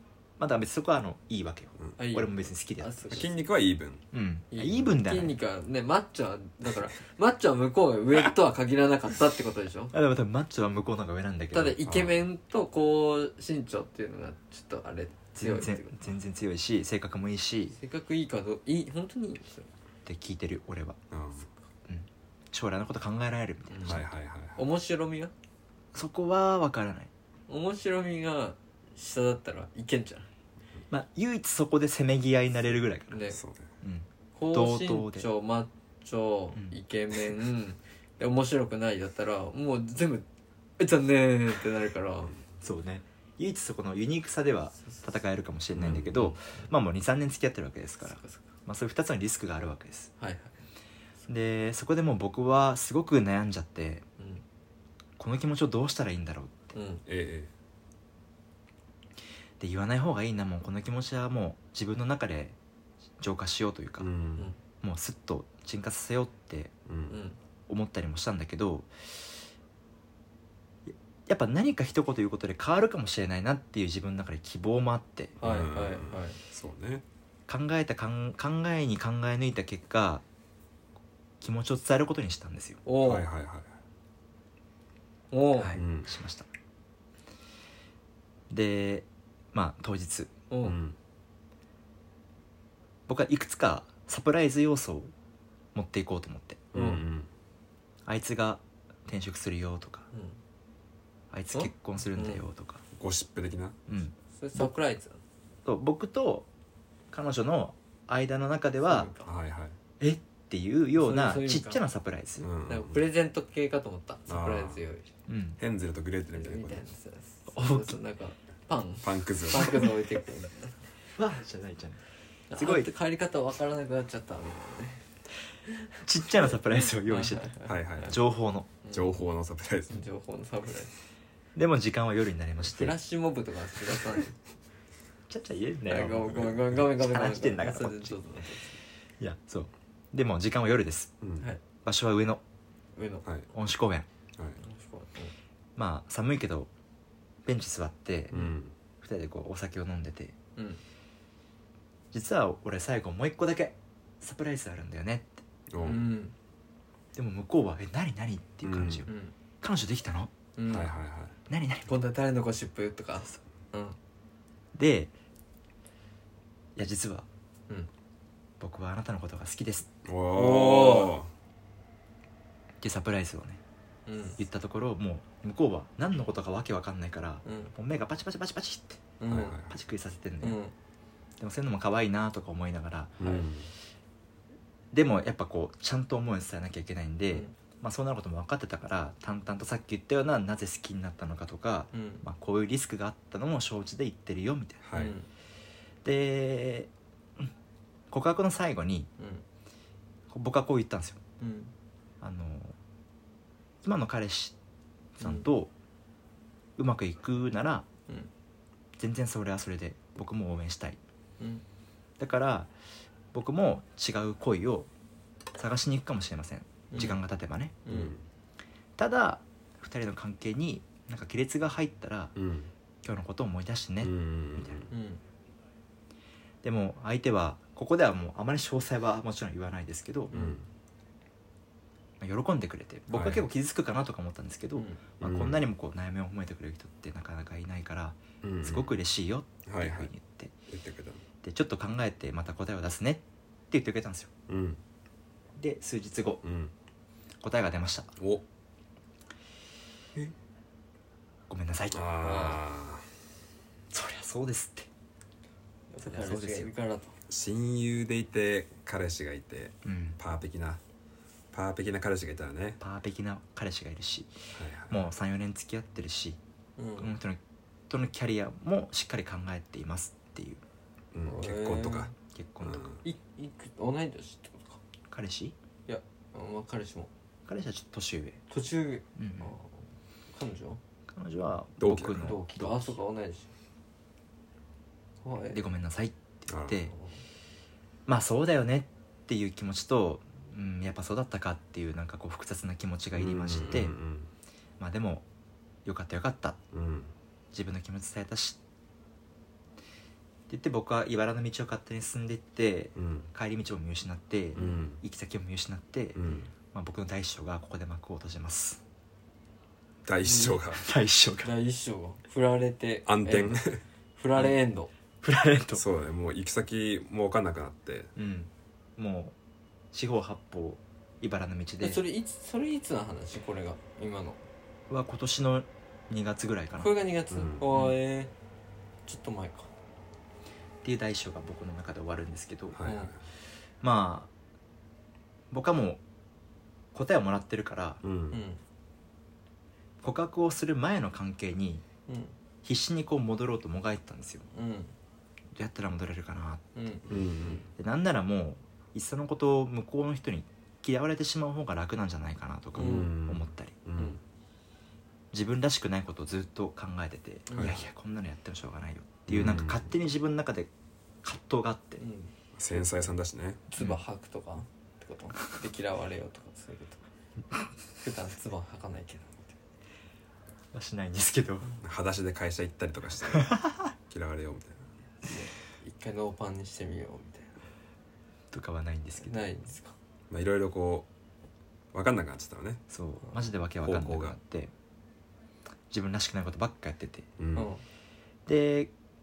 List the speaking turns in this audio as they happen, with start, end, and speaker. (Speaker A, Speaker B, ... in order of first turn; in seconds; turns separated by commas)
Speaker A: 0.4-3.2, Speaker B: 2.0-3.3, Speaker C: 3.1-4.0, Speaker A: 4.1-5.3, Speaker B: 4.5-9.9, Speaker A: 9.9-11.8, Speaker B: 11.5-16.0, Speaker C: 11.8-12.2, Speaker A: 15.3-17.7, Speaker B: 17.7-19.7, Speaker A: 20.1-21.0, Speaker C: 21.1-21.5, Speaker A: 21.9-24.1, Speaker B: 23.7-24.0, Speaker C: 23.9-24.6, Speaker B: 24.6-25.3, Speaker A: 25.9-27.1, Speaker B: 27.5-30.3, Speaker A: 30.9-33.2, Speaker B: 33.1-33.4, Speaker C: 33.3-33.7, Speaker A: 33.8-35.3, Speaker B: 34.3-40.2, Speaker B: 40.8-42.3, Speaker A: 42.6-50.1, Speaker C: 45.7-46.3, Speaker B: 48.0-48.5, Speaker B: 50.2-50.6, Speaker A: 51.3-54.0, Speaker A: 55.2-56.7, Speaker B: 56.7-57.0, Speaker C: 57.1-57.5, Speaker A: 59.6-62.5, Speaker A: 63.2-64.1, Speaker C: 64.0-64.5, Speaker A: 64.8-66.7, Speaker C: 66.9-67.2, Speaker B: 67.1-67.4, Speaker A: 67.7-69.2, Speaker A: 70.9-75.3, Speaker B: 75.4-76.4, Speaker C: 75.4-77.0, Speaker A: 77.5-80.2, Speaker A: 81.4-82.8, Speaker B: 82.8-83.3, Speaker C: 83.0-83.7, Speaker B: 85.3-85.7, Speaker A: 85.6-86.5, Speaker C: 85.7-86.1, Speaker A: 88.5-90.3, Speaker B: 90.5-90.8, Speaker C: 90.6-91.0, Speaker A: 93.1-95.1, Speaker A: 95.7-96.7, Speaker C: 96.7-97.3, Speaker B: 96.7-97.0, Speaker A: 98.0-100.1, Speaker B: 100.1-100.4, Speaker A: 101.3-102.8, Speaker B: 101.5-102.4, Speaker C: 103.0-103.8, Speaker A: 103.9-104.7, Speaker B: 104.3-105.2, Speaker A: 105.6-106.5, Speaker A: 107.1-109.1, Speaker B: 108.8-109.3, Speaker C: 109.2-109.7, Speaker A: 110.0-112.5, Speaker B: 111.0-111.8, Speaker C: 112.4-113.0, Speaker B: 112.7-115.1, Speaker C: 114.3-114.8, Speaker A: 115.3-115.6, Speaker C: 115.6-116.8, Speaker B: 116.3-120.8, Speaker A: 117.5-117.9, Speaker C: 119.0-119.8, Speaker A: 121.2-122.0, Speaker B: 122.5-125.0, Speaker A: 122.6-122.9, Speaker B: 125.7-128.1, Speaker A: 126.0-127.5, Speaker C: 127.7-128.2, Speaker A: 128.1-128.7, Speaker B: 128.8-129.2, Speaker C: 128.9-130.0, Speaker B: 129.9-130.9, Speaker A: 131.5-132.9, Speaker B: 132.6-134.3, Speaker A: 135.3-138.2, Speaker B: 135.9-138.8, Speaker A: 139.2-141.1, Speaker C: 141.2-141.5, Speaker A: 141.8-142.4, Speaker B: 142.9-143.2, Speaker A: 143.5-144.1, Speaker B: 144.6-145.3, Speaker A: 145.8-146.7, Speaker A: 147.4-148.3, Speaker C: 148.3-148.7, Speaker A: 149.0-150.3, Speaker B: 150.6-150.8, Speaker A: 152.1-155.4, Speaker C: 155.7-156.1, Speaker B: 155.8-156.3, Speaker A: 157.1-159.1, Speaker C: 158.6-159.1, Speaker B: 159.1-159.3, Speaker A: 159.6-160.3, Speaker B: 160.6-160.9, Speaker C: 160.7-161.3, Speaker A: 161.5-161.9, Speaker B: 161.9-164.0, Speaker A: 164.7-165.1, Speaker A: 166.8-167.3, Speaker A: 168.6-169.9, Speaker C: 170.0-171.3, Speaker B: 170.3-171.2, Speaker A: 172.8-173.6, Speaker B: 174.1-174.4, Speaker A: 174.4-180.6, Speaker B: 177.4-177.7, Speaker B: 179.2-179.6, Speaker C: 179.3-179.7, Speaker B: 180.4-180.7, Speaker A: 181.4-183.3, Speaker C: 183.2-183.7, Speaker A: 184.9-194.8, Speaker B: 191.9-192.2, Speaker C: 194.8-195.1, Speaker B: 194.9-195.3, Speaker A: 196.0-196.9, Speaker A: 198.1-199.1, Speaker B: 199.2-199.4, Speaker A: 200.3-201.2, Speaker B: 201.4-201.7, Speaker A: 202.2-202.8, Speaker A: 203.8-204.6, Speaker A: 205.2-205.7, Speaker B: 205.2-205.5, Speaker A: 206.8-207.8, Speaker A: 209.0-211.0, Speaker A: 212.2-212.7, Speaker A: 213.3-214.9, Speaker A: 215.6-217.8, Speaker B: 216.9-217.2, Speaker B: 217.8-218.1, Speaker C: 217.9-218.2, Speaker A: 219.0-222.3, Speaker C: 222.3-222.7, Speaker A: 223.0-224.8, Speaker C: 224.0-224.9, Speaker B: 224.9-225.2, Speaker A: 226.6-230.3, Speaker B: 230.3-230.6, Speaker C: 230.3-230.6, Speaker A: 232.2-240.5, Speaker C: 233.1-233.4, Speaker B: 234.8-235.0, Speaker C: 235.2-235.6, Speaker C: 238.4-238.9, Speaker C: 239.7-240.1, Speaker C: 240.7-241.2, Speaker A: 241.4-244.3, Speaker C: 244.5-244.8, Speaker A: 245.6-246.4, Speaker C: 246.4-246.7, Speaker A: 247.4-248.1, Speaker C: 248.2-248.4, Speaker A: 251.5-252.0, Speaker C: 251.9-253.0, Speaker B: 252.2-252.6, Speaker A: 253.9-254.9, Speaker B: 255.9-257.1, Speaker A: 256.0-256.7, Speaker C: 257.3-260.8, Speaker A: 259.8-260.2, Speaker C: 261.5-262.8, Speaker A: 262.8-264.3, Speaker C: 264.5-265.0, Speaker A: 264.9-266.4, Speaker B: 266.8-267.1, Speaker A: 267.0-270.6, Speaker C: 271.1-272.1, Speaker B: 271.2-272.1, Speaker A: 272.3-272.8, Speaker C: 272.6-273.0, Speaker B: 273.0-274.8, Speaker A: 275.1-275.5, Speaker B: 275.9-277.1, Speaker A: 277.5-278.4, Speaker B: 278.5-280.8, Speaker A: 279.1-279.5, Speaker A: 281.1-282.9, Speaker C: 281.8-282.2, Speaker B: 282.2-283.5, Speaker B: 285.2-285.6, Speaker A: 285.5-286.9, Speaker C: 286.5-286.8, Speaker B: 286.9-287.2, Speaker A: 288.1-293.9, Speaker C: 293.1-294.3, Speaker A: 294.8-295.2, Speaker A: 295.8-296.6, Speaker C: 296.7-297.1, Speaker A: 297.5-298.6, Speaker A: 300.5-306.2, Speaker C: 302.9-303.3, Speaker C: 304.6-305.0, Speaker C: 306.1-306.5, Speaker A: 306.7-308.8, Speaker C: 310.1-310.8, Speaker B: 310.2-310.6, Speaker A: 310.7-311.5, Speaker B: 311.4-313.6, Speaker C: 313.1-313.8, Speaker B: 314.2-314.9, Speaker A: 315.2-315.8, Speaker C: 315.7-318.1, Speaker A: 318.1-319.3, Speaker A: 319.9-322.0, Speaker B: 321.8-324.4, Speaker A: 324.9-326.9, Speaker B: 326.8-328.3, Speaker C: 327.3-327.6, Speaker B: 329.1-329.7, Speaker A: 330.8-332.8, Speaker C: 332.7-333.2, Speaker B: 332.8-333.1, Speaker A: 333.8-334.3, Speaker A: 335.5-336.0, Speaker A: 336.9-338.0, Speaker C: 338.0-338.4, Speaker B: 338.3-338.6, Speaker A: 340.0-341.8, Speaker B: 342.1-342.3, Speaker A: 342.6-344.4, Speaker B: 344.5-344.9, Speaker A: 345.6-346.7, Speaker B: 346.7-347.7, Speaker C: 347.1-347.6, Speaker A: 347.8-353.8, Speaker C: 352.7-354.2, Speaker B: 352.8-353.1, Speaker A: 355.3-360.7, Speaker B: 357.5-357.9, Speaker C: 359.3-359.9, Speaker A: 361.2-362.0, Speaker B: 362.0-362.3, Speaker C: 362.6-363.6, Speaker B: 363.7-367.1, Speaker B: 368.0-369.5, Speaker A: 370.7-371.7, Speaker C: 371.8-374.8, Speaker A: 373.3-373.8, Speaker B: 375.2-377.6, Speaker A: 378.5-379.4, Speaker B: 379.2-379.9, Speaker C: 380.3-381.1, Speaker C: 381.9-382.8, Speaker A: 382.9-384.7, Speaker C: 383.8-384.3, Speaker A: 385.9-387.2, Speaker C: 387.4-387.7, Speaker B: 387.5-387.8, Speaker A: 388.5-388.9